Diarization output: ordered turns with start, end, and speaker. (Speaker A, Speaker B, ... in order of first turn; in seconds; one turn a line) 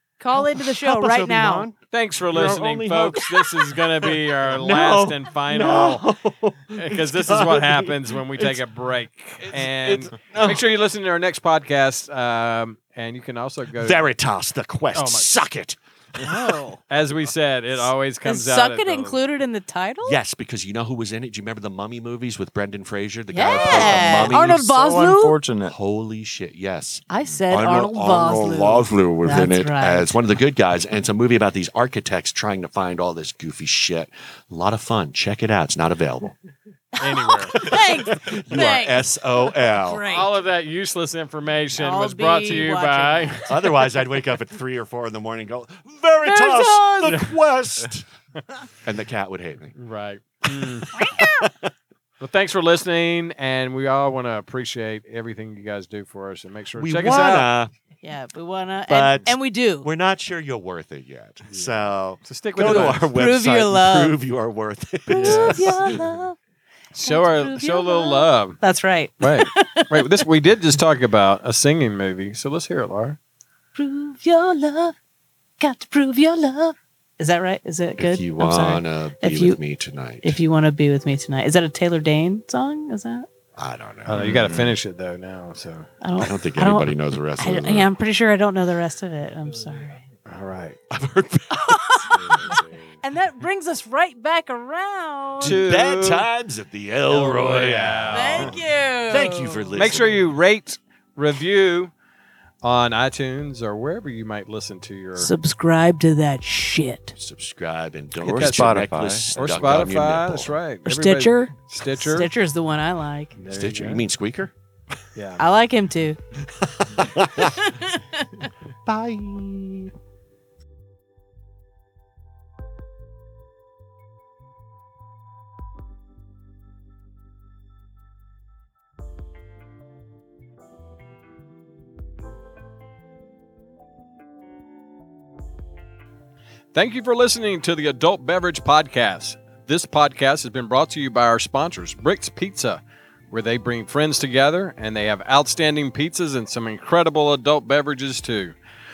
Speaker A: 0.2-1.7
Speaker B: 0.3-8.6
Speaker C: 1.9-6.0
Speaker C: 6.8-14.1
Speaker B: 9.4-10.6
Speaker B: 13.7-16.7
Speaker C: 14.9-15.3
Speaker C: 16.9-19.2
Speaker A: 18.2-20.2
Speaker B: 20.0-24.5
Speaker A: 23.3-25.4
Speaker D: 23.5-25.8
Speaker B: 25.6-36.4
Speaker A: 27.1-30.1
Speaker C: 37.0-37.6
Speaker A: 37.0-40.4
Speaker B: 37.5-40.0
Speaker C: 40.0-43.4
Speaker A: 41.8-43.6
Speaker B: 43.5-48.0
Speaker A: 46.2-47.1
Speaker B: 48.8-49.7
Speaker C: 49.8-50.9
Speaker B: 50.5-51.7
Speaker A: 50.9-51.3
Speaker C: 52.2-57.5
Speaker B: 56.8-57.7
Speaker A: 58.0-59.9
Speaker B: 58.9-66.1
Speaker C: 61.5-63.1
Speaker A: 62.6-64.2
Speaker A: 65.1-66.3
Speaker C: 65.2-66.1
Speaker C: 66.9-68.6
Speaker A: 67.0-70.2
Speaker C: 69.2-73.2
Speaker A: 73.8-74.9
Speaker A: 75.6-79.6
Speaker B: 78.0-80.4
Speaker A: 80.2-83.2
Speaker B: 83.5-84.8
Speaker C: 84.0-85.9
Speaker A: 86.0-90.0
Speaker B: 86.2-87.9
Speaker C: 90.2-90.8
Speaker B: 90.9-92.1
Speaker A: 91.5-95.6
Speaker D: 92.1-93.0
Speaker C: 95.4-96.3
Speaker B: 95.4-100.3
Speaker C: 97.1-98.6
Speaker A: 98.1-99.8
Speaker C: 99.8-101.9
Speaker C: 102.6-105.3
Speaker A: 105.2-107.1
Speaker B: 107.2-110.6
Speaker D: 108.2-109.3
Speaker C: 108.3-108.7
Speaker C: 109.3-112.3
Speaker A: 110.8-113.3
Speaker C: 113.4-114.0
Speaker B: 113.5-114.5
Speaker C: 115.1-115.4
Speaker A: 115.4-116.2
Speaker B: 116.6-117.5
Speaker A: 117.2-118.2
Speaker B: 118.8-119.9
Speaker C: 136.7-148.6